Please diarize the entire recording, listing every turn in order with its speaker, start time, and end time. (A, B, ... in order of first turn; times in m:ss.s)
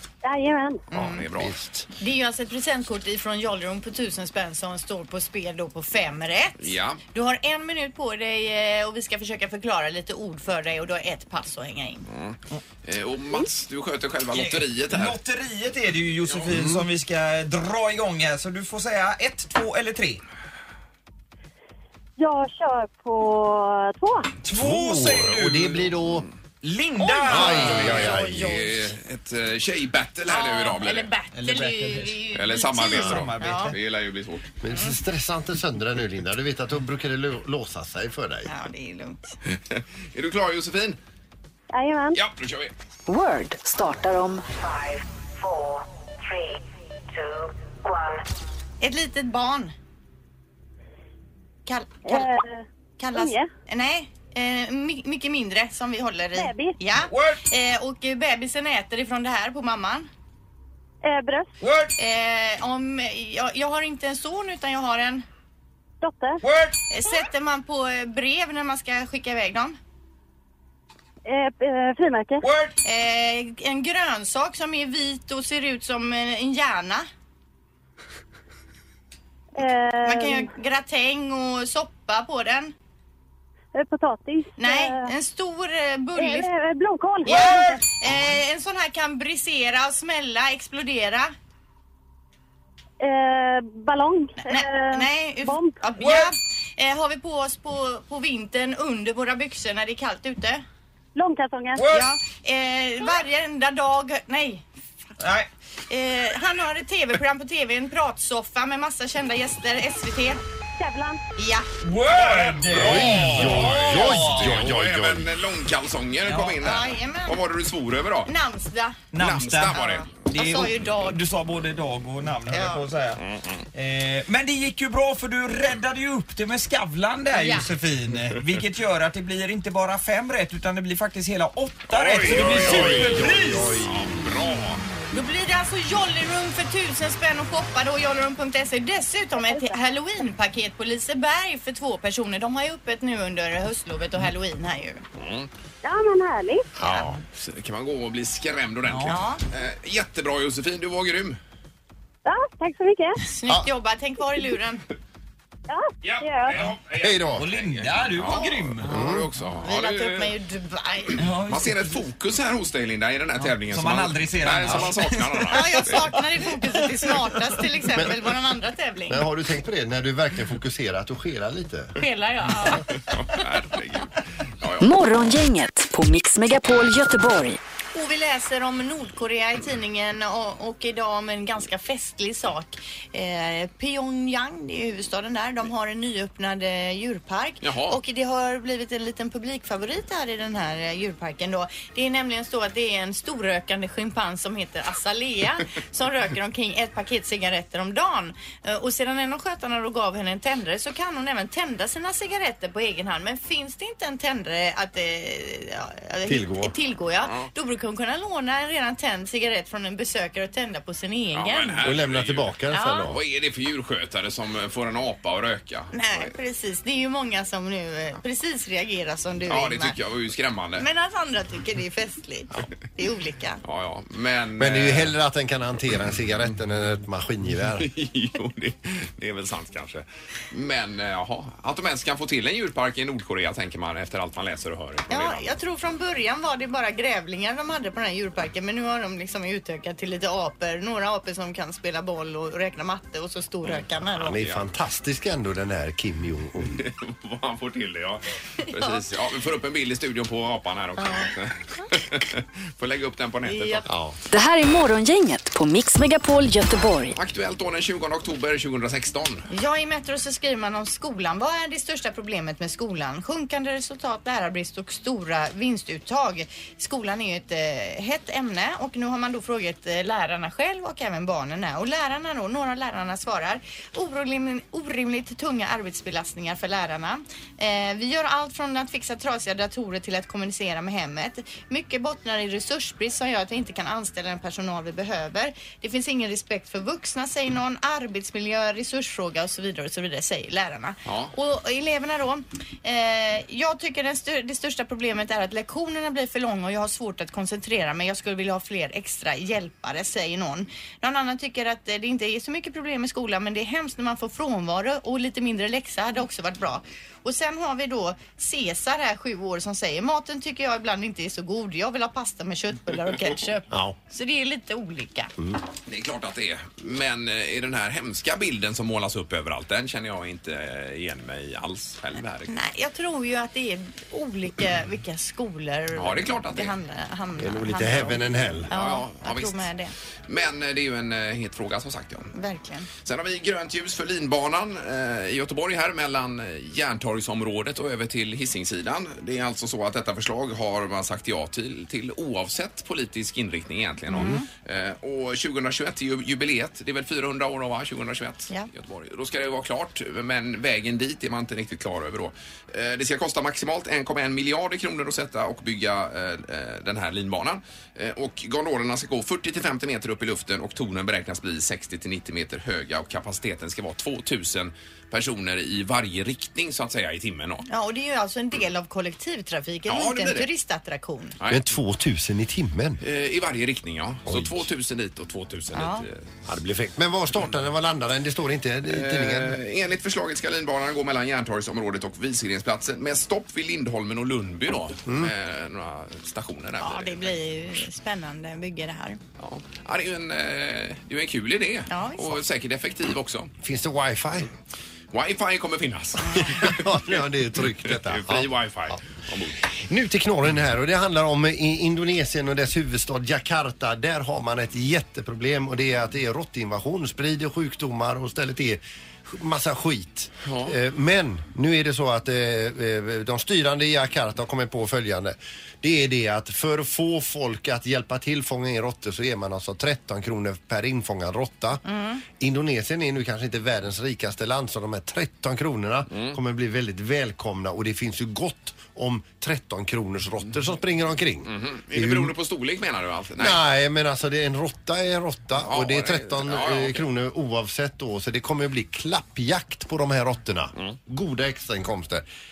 0:00.2-0:00.8 A
0:00.9-0:01.5 B
0:01.0-0:01.2 C
0:01.3-0:01.9 D
0:01.9-0:12.1 C
0:06.6-0:07.0 B
0:12.1-0:15.2 B
0:14.3-0:20.2 E
0:16.5-0:16.8 D
0:22.2-0:24.3 A
0:24.4-0:25.9 E
0:24.5-0:26.2 D
0:26.6-0:28.2 E
0:27.0-0:28.9 C
0:27.3-0:28.5 D
0:27.3-0:31.1 B
0:30.3-0:33.7 C
0:31.3-0:32.2 E
0:32.3-0:34.5 B
0:32.8-0:33.8 E
0:34.6-0:38.5 D
0:38.4-0:39.4 C
0:39.5-0:41.0 B
0:41.7-0:42.2 A
0:42.1-0:42.7 B
0:43.1-0:44.5 F
0:48.8-0:49.7 C
0:51.6-0:52.3 C
0:52.0-0:53.5 A
0:53.0-1:00.1 C
0:56.4-0:56.8 A
0:57.0-0:57.4 E
1:01.0-1:01.5 A
1:01.6-1:01.9 E
1:02.0-1:05.2 C
1:06.0-1:06.4 A
1:06.4-1:06.8 E
1:06.9-1:09.8 C
1:11.2-1:12.4 A
1:12.4-1:12.7 E
1:12.8-1:17.1 C
1:19.6-1:20.5 A
1:20.0-1:22.7 C
1:23.7-1:25.1 A
1:24.6-1:26.5 C
1:26.2-1:27.8 A
1:27.2-1:31.3 C
1:33.0-1:35.8 A
1:34.4-1:40.6 C
1:36.0-1:36.3 E
1:41.2-1:41.9 A
1:41.8-1:42.1 E
1:41.9-1:44.6 C
1:45.2-1:45.5 E
1:45.9-1:50.4 C
1:50.8-1:51.2 A
1:51.4-1:51.7 C
1:51.8-1:54.7 E
1:52.1-1:58.3 B
1:52.7-1:55.3 D
1:56.2-1:56.7 E
1:56.6-1:57.4 C
1:58.2-1:59.0 C
1:59.1-2:03.2 E
1:59.2-2:00.2 B
1:59.6-2:01.2 C
2:02.5-2:02.9 C
2:03.2-2:03.6 B
2:03.7-2:13.8 E
2:11.9-2:14.8 B
2:12.2-2:13.9 D
2:15.1-2:25.0 C
2:19.4-2:19.7 A
2:25.1-2:25.5 B
2:25.8-2:26.7 A
2:26.8-2:27.2 D
2:27.3-2:31.4 B
2:28.8-2:29.3 E
2:29.0-2:29.4 C
2:32.2-2:33.2 A
2:33.2-2:34.8 C
2:35.7-2:36.7 A
2:36.1-2:36.8 E
2:36.4-2:40.3 B
2:37.0-2:37.5 D
2:37.3-2:38.9 E
2:38.8-2:39.3 D
2:39.6-2:41.2 C
2:41.2-2:42.0 E
2:41.5-2:46.1 B
2:43.4-2:45.6 E
2:45.5-2:49.2 C
2:46.4-2:47.2 E
2:49.1-2:51.9 D
2:52.0-2:52.8 C
2:53.1-2:55.2 B
2:54.8-2:57.6 F
2:57.9-3:31.9 C
3:07.6-3:08.0 B
3:26.2-3:26.7 D
3:27.2-3:27.5 B
3:31.3-3:36.3 B
3:31.8-3:33.2 D
3:32.7-3:33.1 C
3:35.9-3:40.0 C
3:39.5-3:40.9 B
3:40.8-3:43.6 C
3:43.6-3:45.1 B
3:44.6-3:47.9 D
3:47.8-3:55.4 B
3:55.1-4:04.4 C
4:04.2-4:06.8 D
4:04.3-4:04.6 B
4:06.7-4:13.9 B
4:08.7-4:09.0 C
4:11.0-4:11.8 C
4:13.4-4:13.8 C
4:13.9-4:14.1 D
4:14.3-4:17.2 F
4:17.1-4:19.5 B
4:19.5-5:15.3 C
4:51.0-4:51.3 B
5:13.7-5:14.0 D
5:15.9-5:22.5 B
5:22.5-5:29.9 C
5:25.9-5:26.7 B
5:27.4-5:28.7 D
5:28.7-5:29.7 B
5:30.3-5:32.3 B
5:32.3-5:32.9 C
5:33.0-6:07.6 B
5:44.1-5:44.4 C
6:07.7-6:11.4 C
6:09.9-6:10.5 B
6:11.5-6:13.0 D
6:13.0-6:16.3 B
6:14.2-6:14.7 D
6:15.7-6:16.0 C
6:16.4-6:19.6 D
6:18.9-6:27.3 B
6:25.1-6:25.3 D
6:26.8-6:29.2 C
6:29.4-6:33.5 B
6:31.9-6:32.4 C
6:33.6-6:34.5 D
6:35.1-6:36.9 B
6:36.3-6:39.0 D
6:37.8-6:39.6 B
6:39.7-7:01.8 D
6:50.4-6:50.7 B
7:01.8-7:02.2 C
7:02.4-7:12.3 D
7:06.1-7:06.4 B
7:11.4-7:13.6 B
7:13.4-7:22.2 D
7:15.6-7:17.1 B